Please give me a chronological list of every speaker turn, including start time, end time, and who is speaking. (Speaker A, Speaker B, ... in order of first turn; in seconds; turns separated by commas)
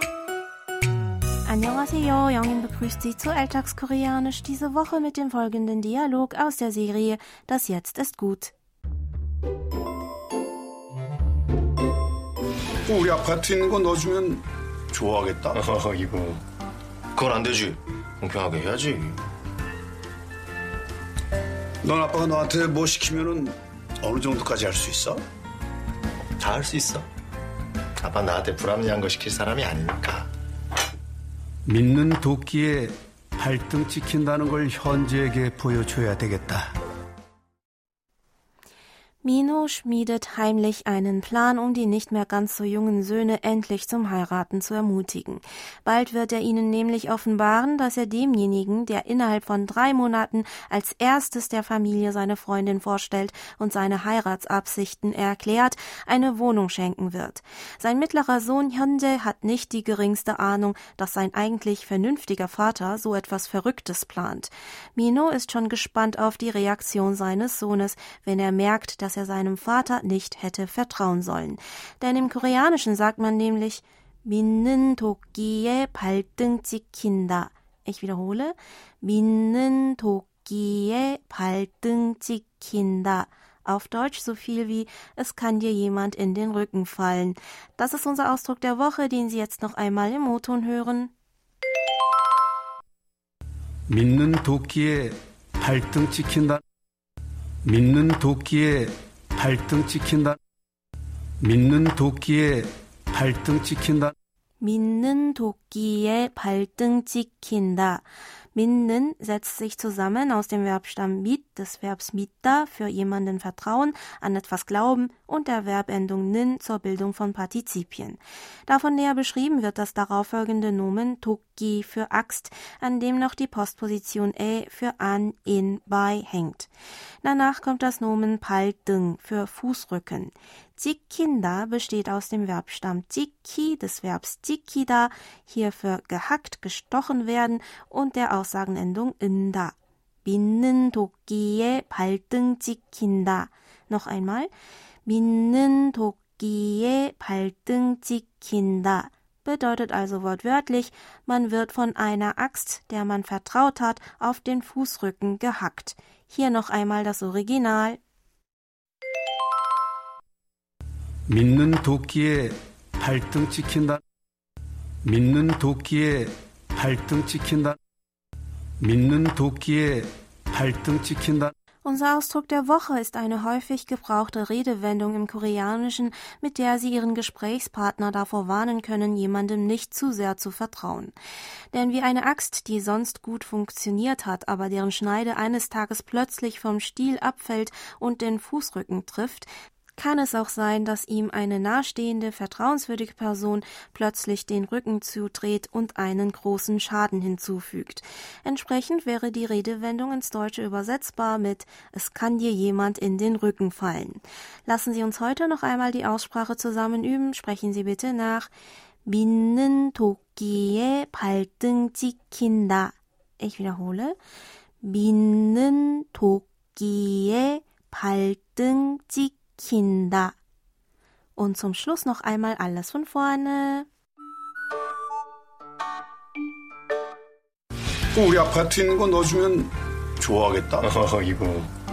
Speaker A: 1.5-8.5, Speaker B: 12.9-15.6, Speaker C: 15.6-16.4, Speaker C: 17.1-19.2, Speaker B: 21.8-25.2, Speaker C: 26.4-27.1, Speaker C: 28.0-30.3, Speaker D: 31.7-36.7, Speaker A: 39.2-91.1, Speaker D: 93.9-96.6, Speaker D: 97.7-100.4, Speaker D: 101.4-104.2, Speaker A: 104.6-126.7, Speaker A: 127.2-144.5, Speaker A: 145.1-158.0, Speaker D: 161.3-164.0, Speaker D: 165.0-167.8, Speaker D: 168.8-171.5, Speaker A: 171.8-181.1, Speaker A: 181.7-208.5, Speaker A: 209.1-214.2, Speaker A: 214.8-220.4, Speaker A: 221.4-223.9, Speaker B: 228.1-230.9, Speaker C: 230.8-231.7